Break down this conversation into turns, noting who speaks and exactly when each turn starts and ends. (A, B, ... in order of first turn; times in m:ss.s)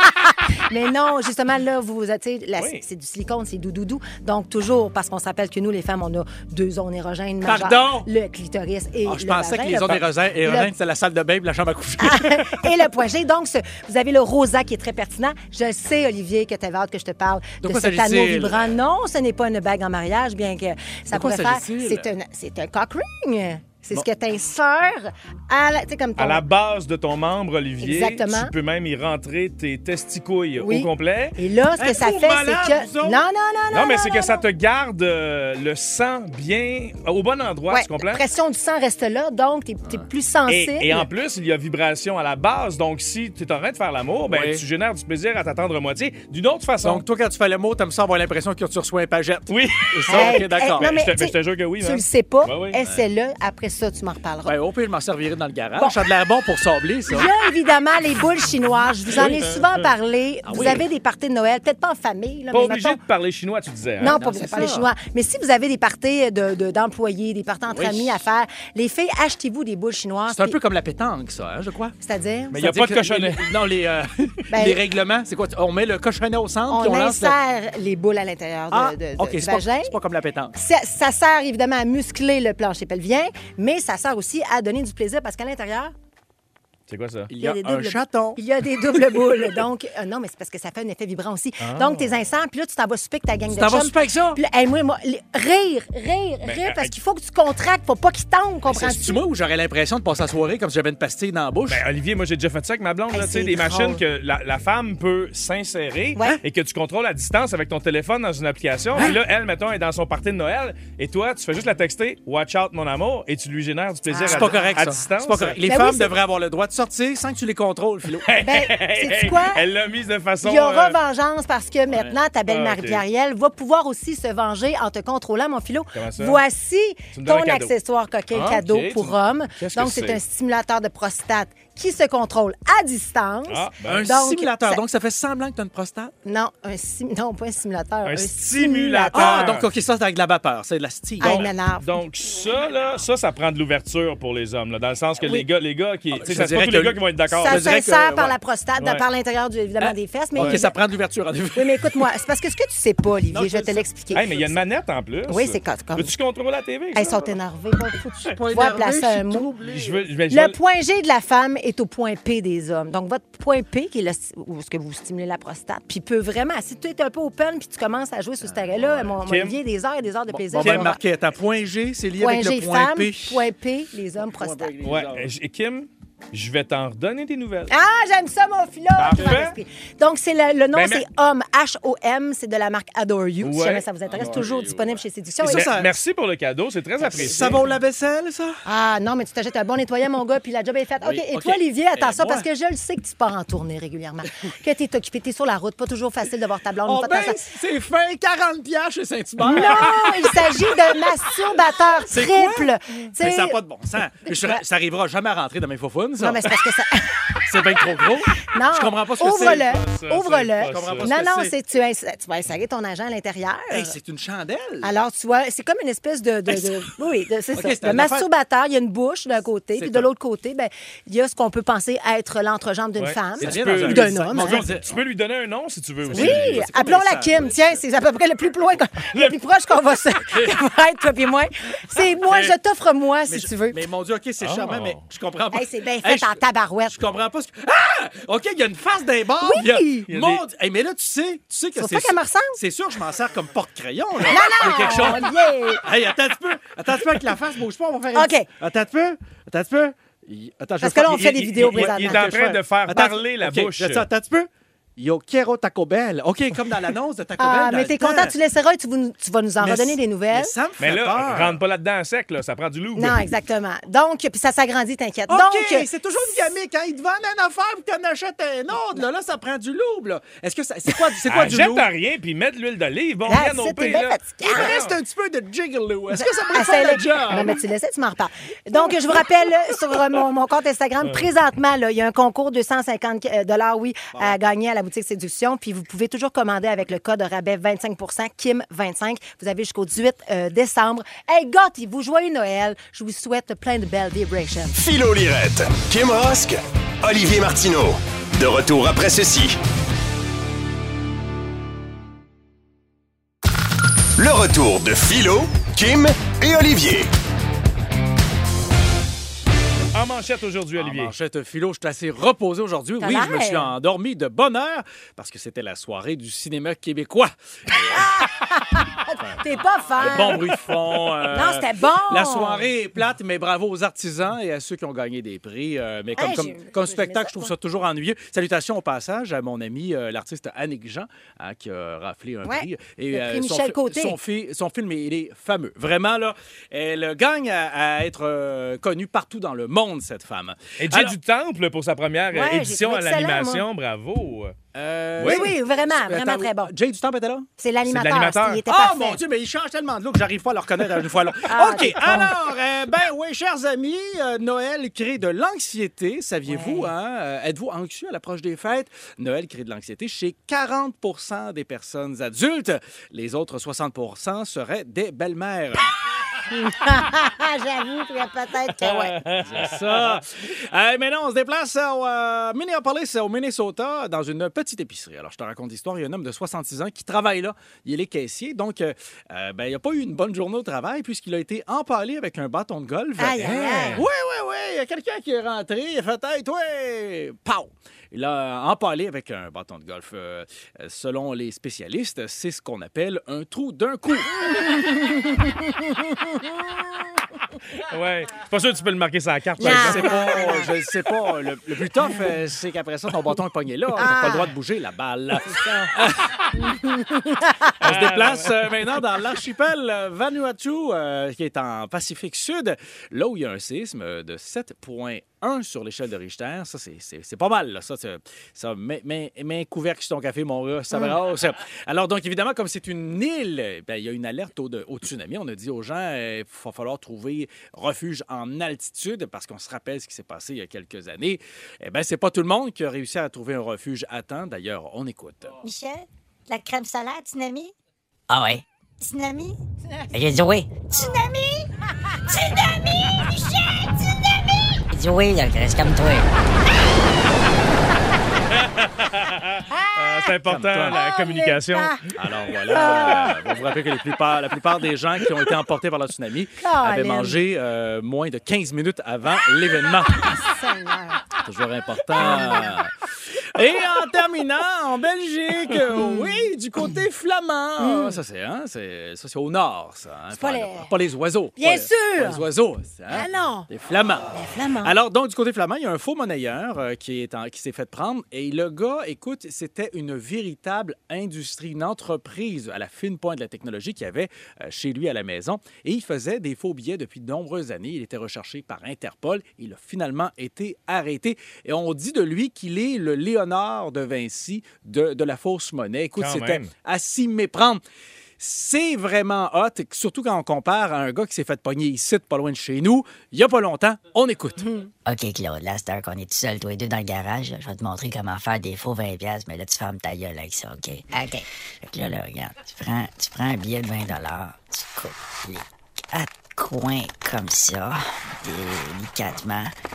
0:00.5-0:10.7 A
0:02.6-0:02.8 B
0:07.4-0:08.1 C
0:09.0-0:12.3 C
0:12.0-0:26.4 A
0:17.6-0:18.7 C
0:21.1-0:22.1 C
0:26.2-0:31.3 B
0:27.8-0:28.5 A
0:30.6-0:34.4 A
0:31.8-0:33.2 C
0:33.7-0:38.2 B
0:37.7-0:41.1 A
0:40.5-0:47.0 B
0:44.3-0:44.6 C
0:46.8-0:50.9 C
0:49.5-0:52.8 B
0:50.1-0:54.5 A
0:54.4-0:57.3 C
0:57.1-1:03.0 A
1:00.4-1:00.8 C
1:02.5-1:04.2 B
1:04.0-1:10.6 A
1:04.1-1:04.9 C
1:07.7-1:08.2 C
1:10.3-1:11.9 C
1:12.0-1:12.5 A
1:12.5-1:13.4 B
1:12.5-1:17.4 C
1:14.5-1:14.8 A
1:16.7-1:19.9 A
1:18.7-1:20.5 C
1:20.5-1:25.9 A
1:26.9-1:27.3 B
1:27.3-1:28.4 C
1:27.4-1:39.2 A
1:31.6-1:32.1 B
1:33.5-1:34.4 C
1:36.4-1:37.0 B
1:38.6-1:41.8 C
1:41.7-1:55.6 B
1:43.1-1:44.0 A
1:54.1-1:54.7 A
1:54.3-1:58.3 C
1:55.6-1:56.1 A
1:58.2-2:01.0 B
1:58.4-1:59.6 A
2:00.4-2:14.8 A
2:01.9-2:02.2 C
2:02.5-2:03.0 B
2:05.9-2:06.4 B
2:07.1-2:07.7 B
2:08.3-2:10.2 B
2:13.5-2:14.1 B
2:13.8-2:16.1 C
2:16.2-2:19.6 A
2:18.0-2:19.6 B
2:19.1-2:21.5 C
2:21.2-2:22.0 A
2:21.2-2:27.7 B
2:26.1-2:28.4 C
2:27.4-2:30.7 A
2:28.8-2:29.0 B
2:29.8-2:32.1 C
2:31.5-2:34.5 A
2:33.3-2:34.4 C
2:34.1-2:37.3 B
2:35.3-2:36.1 A
2:36.9-2:39.6 A
2:38.4-2:40.0 C
2:39.7-2:40.6 B
2:40.3-2:51.0 A
2:48.4-2:49.2 C
2:49.2-2:49.6 B
2:50.3-2:53.4 C
2:50.6-2:50.9 B
2:52.2-2:54.7 A
2:54.1-2:55.3 C
2:54.8-2:57.7 B
2:57.7-3:05.7 A
2:59.0-2:59.6 B
3:00.7-3:01.0 B
3:03.4-3:03.8 B
3:04.1-3:05.9 C
3:05.4-3:07.6 B
3:07.0-3:07.6 A
3:07.1-3:08.6 C
3:08.6-3:17.5 A
3:11.0-3:12.4 C
3:16.8-3:20.3 C
3:19.4-3:23.6 A
3:22.1-3:26.4 C
3:24.2-3:24.6 A
3:26.2-3:27.1 A
3:27.4-3:29.7 C
3:28.5-3:34.0 A
3:29.3-3:31.1 B
3:30.6-3:31.5 C
3:33.7-3:34.9 C
3:34.8-3:44.7 A
3:37.5-3:38.3 C
3:39.7-3:40.1 C
3:43.0-3:46.6 B
3:43.4-3:45.0 C
3:46.0-3:47.8 C
3:46.1-3:53.8 A
3:53.3-4:05.3 C
3:54.4-3:55.0 B
3:55.5-3:57.0 A
3:59.4-4:00.1 A
4:00.1-4:00.4 B
4:01.8-4:02.6 A
4:04.3-4:05.8 A
4:05.8-4:18.4 C
4:08.1-4:08.5 A
4:10.8-4:12.6 A
4:11.3-4:14.0 B
4:17.4-4:20.5 A
4:19.6-4:21.6 C
4:20.8-4:23.2 B
4:23.0-4:26.4 A
4:25.3-4:31.9 C
4:31.3-4:35.0 B
4:33.3-4:34.8 A
4:34.5-4:37.6 C
4:36.1-4:54.8 A
4:38.9-4:39.1 C
4:54.7-4:59.6 D
5:04.2-5:07.1 D
5:09.9-5:11.1 B
5:10.8-5:18.1 C
5:13.0-5:13.7 A
5:17.9-5:20.5 A
5:20.0-5:41.2 C
5:21.3-5:22.7 A
5:26.2-5:27.5 A
5:32.4-5:34.2 A
5:40.8-5:44.5 B
5:42.3-5:43.6 A
5:44.7-5:47.5 C
5:45.2-5:45.5 B
5:45.2-5:46.7 A
5:47.6-5:49.2 A
5:47.8-5:48.6 B
5:48.6-6:05.9 C
5:51.5-5:52.3 A
5:56.4-5:56.9 A
6:06.5-6:09.2 A
6:08.8-6:10.2 B
6:09.4-6:34.3 C
6:23.2-6:24.0 A
6:23.4-6:24.0 B
6:34.4-6:37.0 A
6:37.8-6:40.5 B
6:39.6-6:40.7 A
6:39.6-6:46.4 C
6:42.0-6:42.3 A
6:44.0-6:44.5 A
6:45.4-6:45.9 A
6:46.5-6:47.7 A
6:47.8-7:15.5 C
6:47.8-6:48.6 B
7:15.6-7:17.7 E
7:18.3-7:18.6 F
7:19.0-7:19.6 E
7:20.1-7:21.1 F
7:20.8-7:21.7 E
7:22.3-7:23.5 E
7:24.9-7:26.3 F
7:29.7-7:30.2 A
7:30.0-7:32.0 B
7:30.4-7:31.0 C
7:30.8-7:32.0 A
7:32.1-7:40.3 C
7:32.7-7:33.4 A
7:36.6-7:37.4 A
7:40.1-7:41.2 A
7:41.4-7:42.9 C
7:42.2-7:42.7 A
7:43.5-8:17.8 C
7:45.9-7:46.4 A
7:47.8-7:48.2 A
7:50.3-7:50.9 A
7:51.6-7:52.4 A
7:53.1-7:53.7 A
7:54.3-7:54.9 A
8:16.2-8:16.7 B
8:18.4-8:24.7 C
8:24.6-8:24.9 A
8:25.0-8:39.7 F